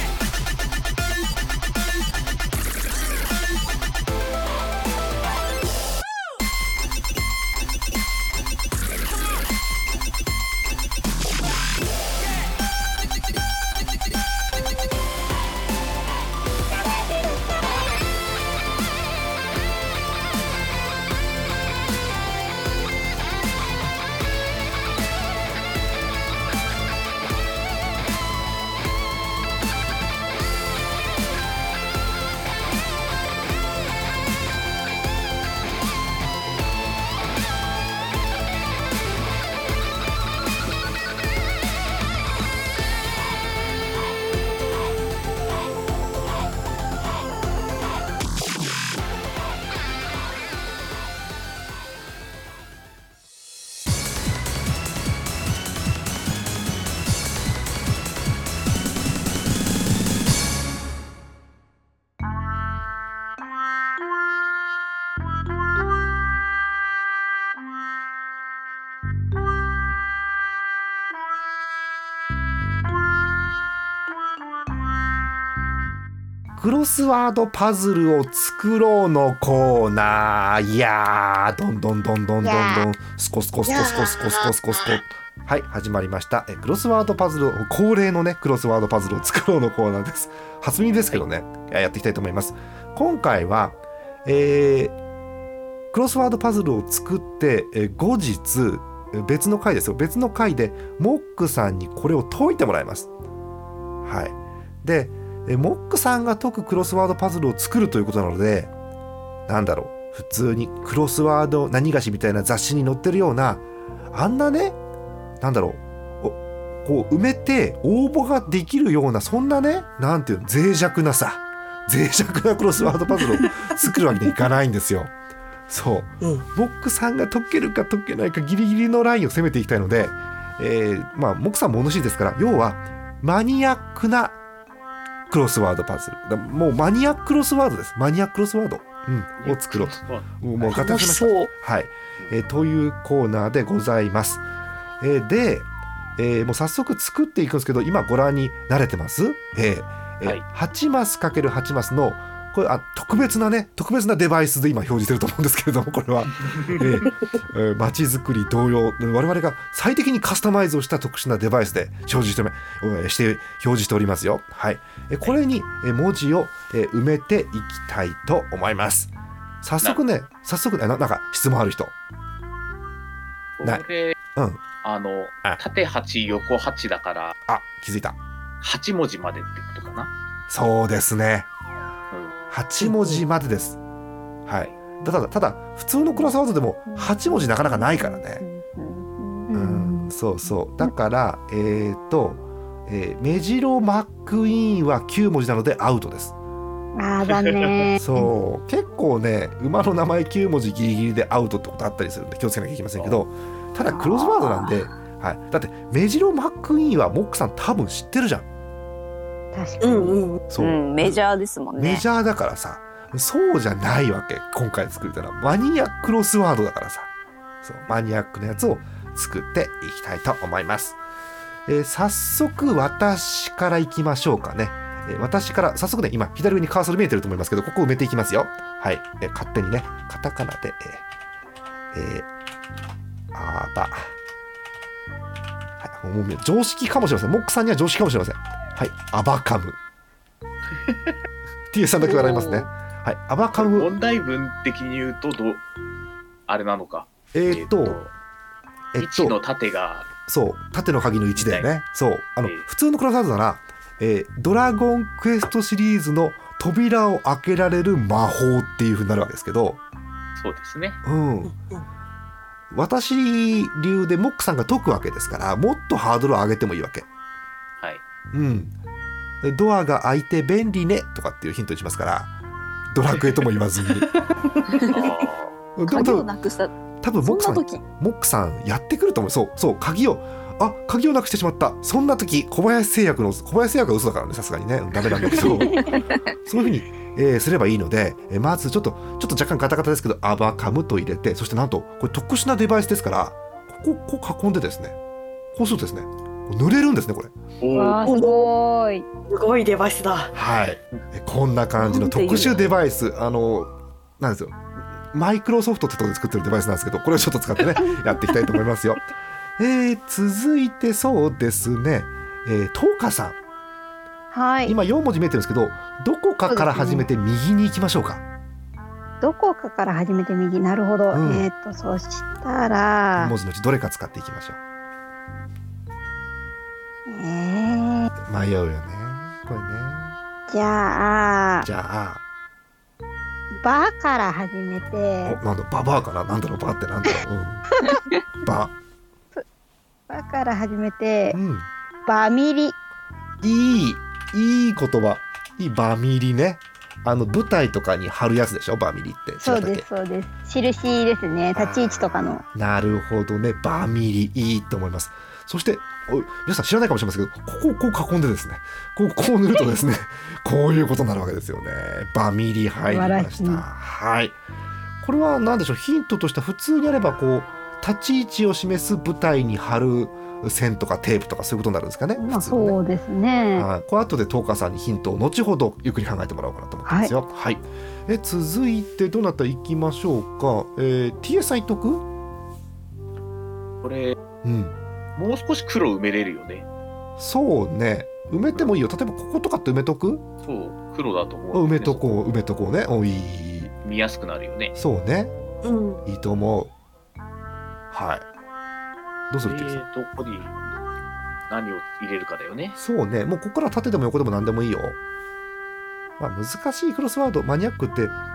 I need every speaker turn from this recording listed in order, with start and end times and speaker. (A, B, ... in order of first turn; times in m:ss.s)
1:16.6-1:35.0 A
1:22.4-1:22.9 B
1:23.7-1:24.5 C
1:35.9-1:43.1 A
1:44.0-1:48.7 A
1:49.5-1:54.8 A
1:55.4-2:05.1 A
2:05.7-2:14.4 A
2:15.3-2:24.4 A
2:19.4-2:20.3 D
2:20.7-2:21.5 C
2:25.0-2:49.1 A
2:36.4-2:36.9 D
2:49.6-2:51.9 A
2:53.6-2:54.2 D
2:54.4-2:54.6 A
2:54.8-2:57.4 D
2:57.5-2:58.2 A
2:58.6-3:00.1 D
3:00.5-3:01.5 A
3:02.5-3:03.8 A
3:04.5-3:08.4 A
3:06.9-3:09.5 E
3:09.5-3:10.1 B
3:09.5-3:16.4 A
3:17.0-3:18.3 B
3:17.2-3:17.8 D
3:18.0-3:28.5 A
3:23.0-3:23.2 D
3:24.3-3:24.7 B
3:29.5-3:30.2 B
3:29.8-3:30.4 C
3:30.5-3:31.2 A
3:30.6-3:32.0 E
3:31.8-3:37.1 A
3:37.6-3:41.0 A
3:41.7-3:51.0 A
3:51.9-3:52.3 A
3:53.3-3:54.1 A
3:55.8-3:59.8 A
4:01.7-4:03.9 A
4:02.0-4:02.7 E
4:03.6-4:05.6 D
4:06.5-4:08.1 D
4:07.3-4:08.0 A
4:08.9-4:09.4 A
4:09.0-4:10.1 D
4:10.3-4:19.8 A
4:11.4-4:11.7 D
4:20.4-4:21.0 D
4:21.0-4:21.5 A
4:21.4-4:21.9 C
4:22.7-4:27.1 A
4:28.3-4:28.7 A
4:29.4-4:32.3 A
4:32.9-4:34.1 A
4:34.7-4:35.1 E
4:34.9-4:35.6 D
4:35.8-4:36.3 A
4:35.9-4:37.8 E
4:37.0-4:45.8 A
4:45.5-4:45.9 B
4:45.8-4:46.3 E
4:46.4-4:55.0 A
4:55.5-4:57.3 A
4:57.6-4:58.2 D
4:57.7-4:59.1 B
4:58.1-4:58.3 C
4:59.3-5:00.3 C
5:00.3-5:04.6 A
5:01.8-5:02.7 E
5:05.1-5:09.0 A
5:09.6-5:13.4 A
5:14.3-5:14.8 B
5:14.7-5:18.2 A
5:16.5-5:17.1 B
5:19.2-5:23.4 B
5:21.1-5:21.5 A
5:23.2-5:24.6 A
5:27.1-5:28.1 B
5:28.2-5:30.2 A
5:30.5-5:31.7 B
5:31.6-5:32.2 A
5:33.6-5:35.4 B
5:35.2-5:37.7 A
5:38.4-5:38.7 A
5:40.1-5:41.4 B
5:41.3-5:41.7 A
5:42.1-5:42.8 B
5:43.4-5:49.9 A
5:49.4-5:52.4 B
5:51.5-6:04.4 A
6:02.9-6:03.6 B
6:05.0-6:12.8 A
6:12.2-6:13.7 B
6:13.6-6:22.0 A
6:16.9-6:17.1 B
6:23.8-6:24.2 D
6:24.4-6:24.8 A
6:25.2-6:26.7 D
6:27.2-6:30.2 A
6:30.4-6:32.1 D
6:31.5-6:33.7 A
6:33.8-6:34.8 D
6:34.8-6:35.3 A
6:35.6-6:36.0 C
6:36.0-6:36.7 A
6:37.9-6:38.2 A
6:39.3-6:39.8 A
6:39.4-6:40.6 D
6:41.5-6:42.8 D
6:42.8-6:45.0 A
6:46.2-6:48.2 A